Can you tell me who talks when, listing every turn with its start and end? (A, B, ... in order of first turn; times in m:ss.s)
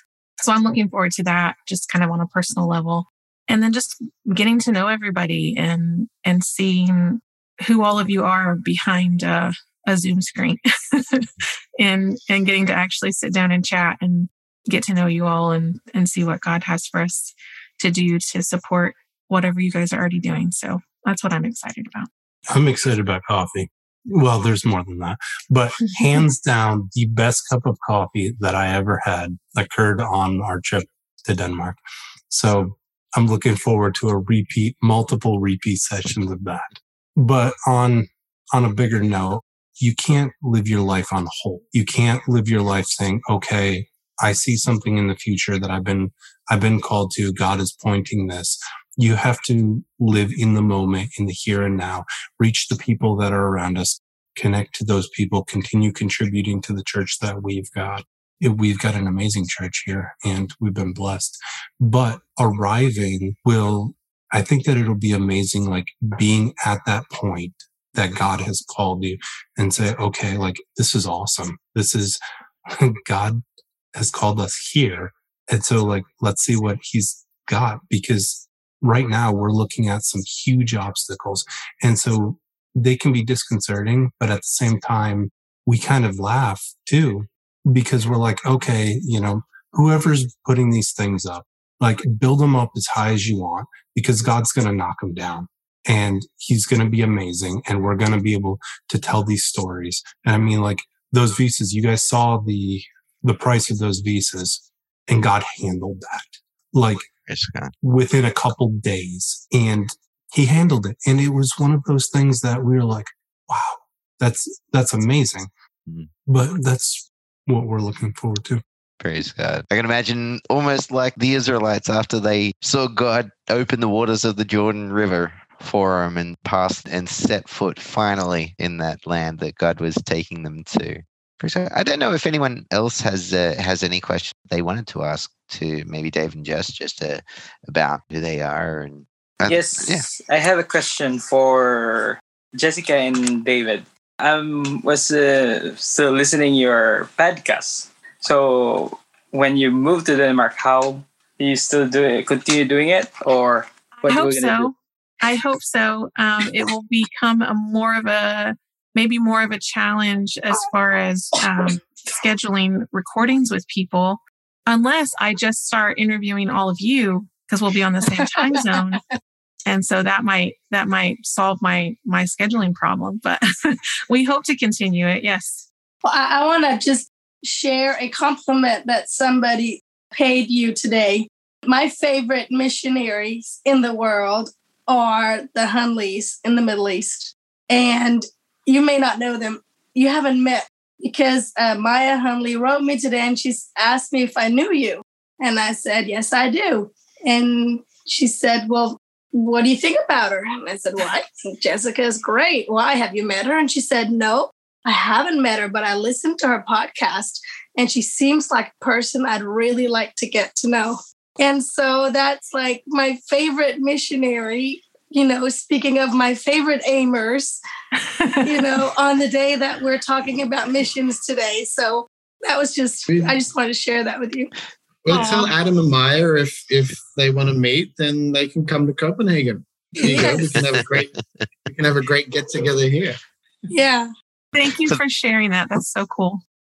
0:00.4-0:11.2 A
0:11.8-0:22.1 A
0:22.5-0:31.8 B
0:32.3-1:12.2 B
1:12.7-1:13.4 B
1:13.9-1:47.1 B
1:47.1-1:47.7 C
1:47.8-1:55.5 B
1:56.3-1:58.6 B
1:59.0-2:20.1 C
2:19.4-2:34.7 D
2:34.0-2:49.0 A
2:48.2-2:48.8 E
2:49.7-2:55.7 A
2:56.0-3:37.6 E
3:38.0-3:38.6 A
3:38.4-3:44.5 E
3:43.1-3:43.4 F
3:45.0-3:51.1 F
3:45.1-3:45.5 A
3:50.0-3:50.3 A
3:50.0-3:50.4 E
3:50.8-3:51.2 C
3:51.7-3:53.2 F
3:53.7-3:54.1 E
3:54.5-3:56.4 A